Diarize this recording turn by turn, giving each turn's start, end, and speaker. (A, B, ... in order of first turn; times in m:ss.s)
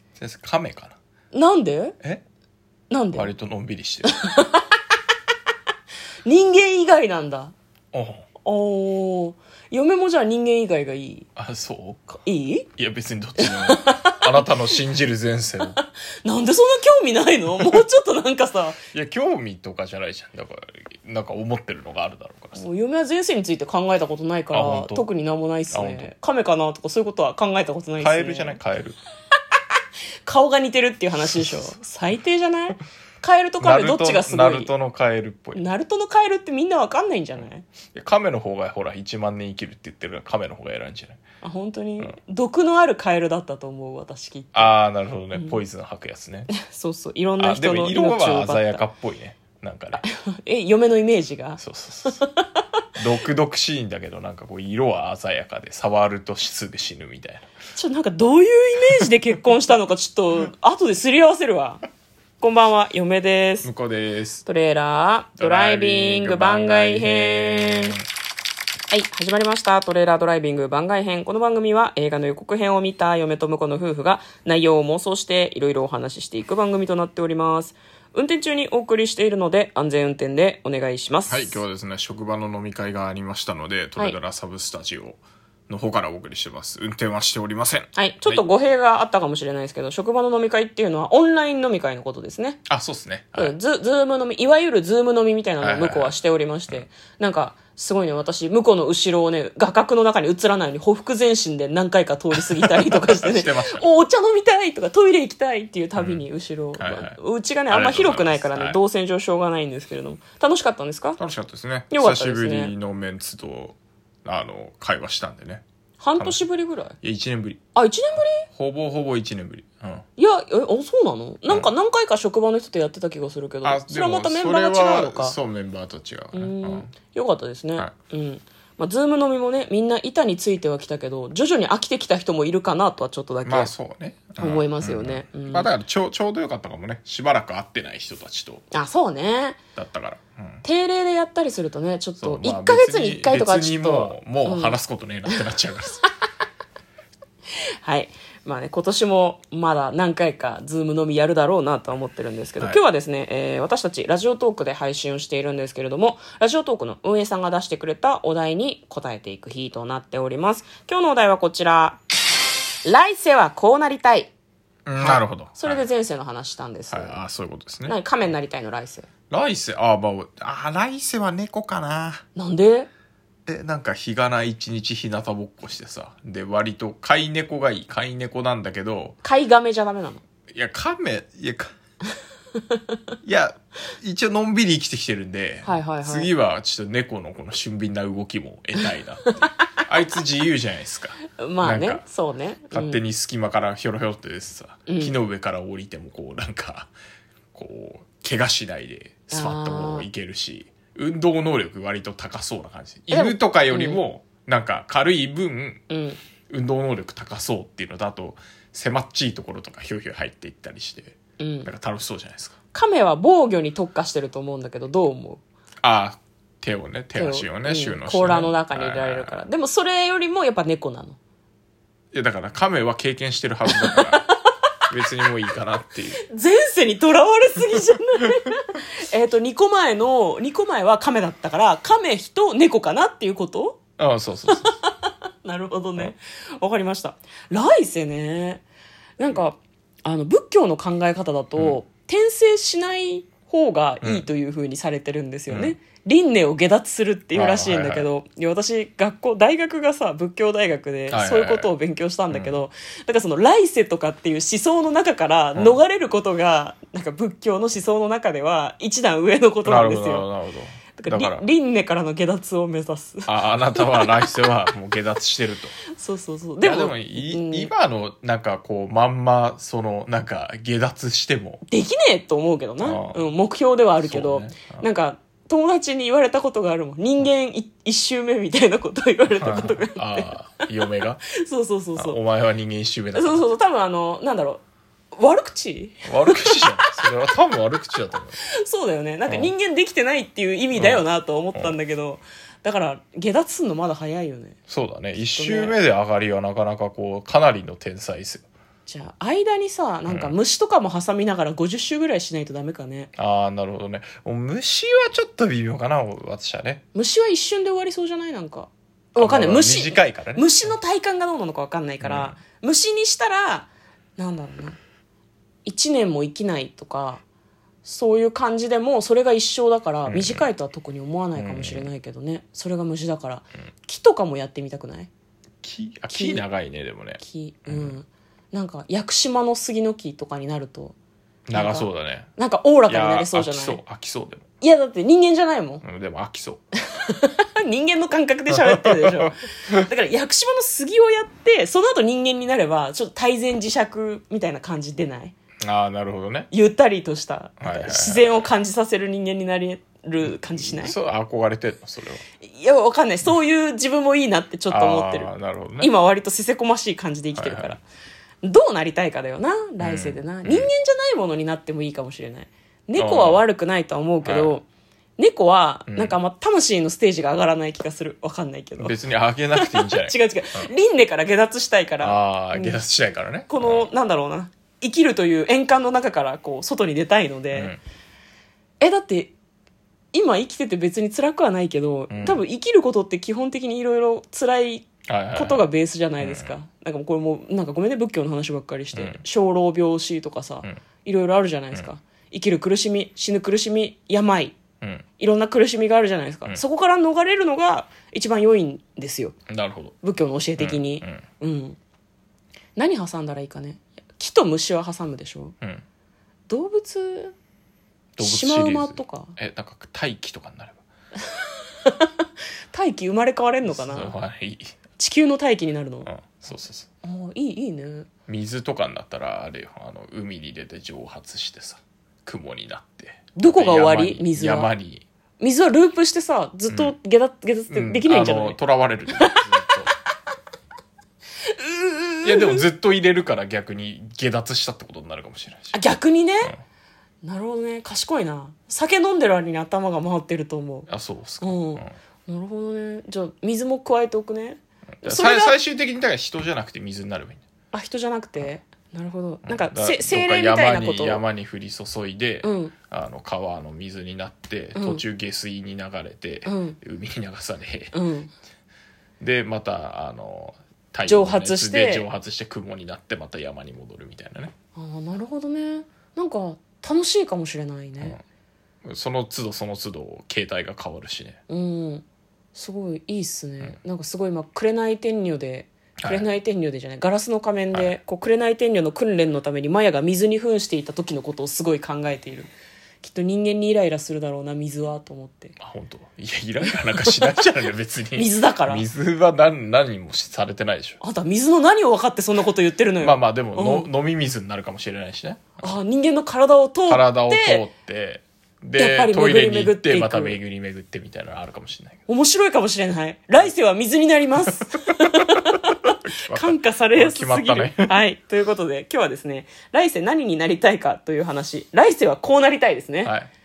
0:00.2-0:01.0 A
0:01.3-0:02.0 B
0:02.9-0:03.3 B
0:03.1-0:04.2 A
0:04.1-0:04.8 B
0:06.2-0:07.5 B
0:07.9-0:08.2 A
0:08.4-0:11.3 B
0:11.4-0:12.1 A
0:12.1-0:12.7 B
0:12.8-0:15.8 A
0:13.4-0:14.7 B
0:15.8-0:18.8 B
0:18.9-0:22.6 A
0:22.6-0:28.6 B
0:24.5-0:25.0 A
0:25.7-0:26.1 A
0:28.0-0:29.0 A
0:30.2-0:34.7 B
0:33.6-0:35.6 A
0:35.6-0:37.7 B
0:37.9-0:41.2 A
0:41.4-0:44.8 B
0:44.5-0:46.5 A
0:45.3-0:45.6 B
0:46.5-0:48.8 B
0:47.4-0:50.0 A
0:50.0-0:51.6 B
0:51.6-0:52.2 A
0:52.1-0:52.5 B
0:53.0-0:57.5 A
0:57.8-1:01.8 B
1:02.4-1:03.7 B
1:03.6-1:04.4 A
1:04.5-1:08.0 B
1:05.4-1:08.1 A
1:08.9-1:21.6 B
1:21.3-1:28.4 A
1:28.0-1:32.6 B
1:32.7-1:33.6 A
1:33.4-1:51.2 B
1:35.6-1:36.1 A
1:42.6-1:43.8 A
1:46.0-1:46.2 A
1:46.8-1:47.2 A
1:47.7-1:48.8 A
1:51.2-1:55.6 A
1:51.9-1:52.7 B
1:56.0-1:57.0 B
1:57.0-1:57.6 A
1:57.8-1:58.5 B
1:58.4-2:00.0 A
2:00.2-2:05.4 B
2:03.6-2:06.9 A
2:06.3-2:13.7 B
2:13.4-2:18.6 A
2:14.4-2:15.7 B
2:18.7-2:19.6 B
2:19.8-2:20.6 A
2:20.6-2:24.8 B
2:22.2-2:26.0 A
2:27.8-2:42.0 B
2:42.8-2:44.3 B
2:44.9-2:45.8 A
2:45.0-2:47.2 B
2:46.9-2:48.0 A
2:47.9-2:49.1 B
2:49.3-2:52.2 A
2:52.4-2:52.9 B
2:53.5-2:59.2 A
2:59.2-3:00.2 B
3:00.5-3:01.7 A
3:03.2-3:12.0 A
3:05.6-3:06.3 B
3:11.4-3:13.0 B
3:12.7-3:16.9 A
3:14.9-3:15.2 B
3:17.5-3:25.8 A
3:19.3-3:20.1 B
3:23.1-3:24.0 B
3:25.9-3:26.2 B
3:26.5-3:32.6 A
3:31.4-3:31.7 B
3:32.7-3:35.4 B
3:35.8-3:39.4 A
3:37.2-3:41.2 B
3:42.1-3:44.3 A
3:43.7-3:44.3 B
3:44.9-3:46.2 A
3:46.3-3:53.8 B
3:54.0-3:54.7 A
3:54.5-3:58.6 B
3:59.2-4:20.3 B
4:04.0-4:04.3 A
4:05.5-4:05.8 A
4:07.3-4:08.1 A
4:11.1-4:11.7 A
4:12.3-4:12.6 A
4:15.6-4:15.8 A
4:19.6-4:21.4 A
4:21.0-4:24.2 B
4:23.3-4:25.8 A
4:26.0-4:27.7 B
4:26.6-4:31.6 A
4:31.7-4:40.3 B
4:32.8-4:33.2 A
4:34.0-4:34.8 A
4:39.4-4:41.2 A
4:41.4-4:42.2 B
4:42.0-4:43.5 A
4:43.1-4:44.6 B
4:45.2-4:46.9 B
4:46.1-4:48.4 A
4:48.6-4:54.6 B
4:49.3-4:49.5 A
4:50.8-4:51.8 A
4:54.7-4:58.4 A
4:55.2-4:55.8 B
4:58.9-5:03.1 B
5:00.1-5:00.4 A
5:03.2-5:06.8 A
5:07.0-5:14.8 B
5:09.2-5:10.5 A
5:12.0-5:12.4 A
5:15.6-5:17.2 B
5:17.8-5:25.1 B
5:20.1-5:20.5 A
5:21.4-5:21.9 A
5:25.6-5:28.0 A
5:26.1-5:26.4 B
5:27.2-5:31.0 B
5:31.5-5:32.3 A
5:31.5-5:33.8 B
5:32.9-5:34.4 A
5:34.6-5:35.8 B
5:35.8-5:36.6 A
5:36.9-5:45.4 B
5:38.5-5:39.9 A
5:45.6-5:46.5 A
5:46.5-5:50.9 B
5:47.6-5:48.4 A
5:50.6-5:52.2 A
5:52.4-5:57.8 B
5:54.7-5:55.9 A
5:57.4-5:57.8 A
5:58.4-6:04.6 B
5:59.8-6:00.7 A
6:03.0-6:03.4 A
6:04.2-6:04.6 A
6:05.2-6:09.0 B
6:05.9-6:06.2 A
6:08.8-6:10.7 A
6:09.6-6:12.8 B
6:12.0-6:13.9 A
6:13.5-6:17.8 B
6:17.5-6:17.8 A
6:18.8-6:19.3 B
6:20.1-6:34.6 B
6:22.1-6:22.4 A
6:25.1-6:25.7 A
6:26.2-6:26.6 A
6:28.9-6:29.2 A
6:35.2-6:39.4 B
6:39.5-6:40.0 A
6:40.0-6:41.8 B
6:40.6-6:41.2 A
6:42.8-6:45.5 B
6:46.5-6:47.3 B
6:48.2-6:50.8 A
6:48.2-6:49.4 B
6:51.2-6:54.2 B
6:53.6-6:54.8 A
6:55.0-6:56.1 B
6:56.0-6:56.9 A
6:57.0-6:58.1 B
6:58.3-7:05.0 A
7:03.4-7:04.7 B
7:05.4-7:08.6 B
7:06.7-7:07.0 A
7:07.7-7:09.9 A
7:09.2-7:09.4 B
7:11.4-7:12.6 B
7:12.2-7:15.8 A
7:15.7-7:16.5 B
7:17.2-7:20.9 B
7:20.9-7:21.9 A
7:21.4-7:25.6 B
7:25.0-7:27.4 A
7:27.7-7:31.2 B
7:29.4-7:38.0 A
7:32.4-7:32.7 B
7:34.8-7:35.0 B
7:36.4-7:36.8 B
7:37.9-7:38.3 B
7:39.2-7:44.5 A
7:41.1-7:42.1 B
7:44.8-7:48.2 B
7:48.8-7:51.4 A
7:51.5-7:52.0 B
7:52.6-8:02.5 B
7:56.0-7:56.3 A
8:03.0-8:05.6 B
8:05.6-8:11.0 A
8:06.7-8:07.4 B
8:08.2-8:08.8 B
8:11.0-8:13.9 B
8:13.0-8:15.8 A
8:15.6-8:17.6 B
8:16.9-8:22.0 A
8:18.8-8:20.4 B
8:22.1-8:33.1 B
8:26.0-8:28.0 A
8:33.0-8:33.3 A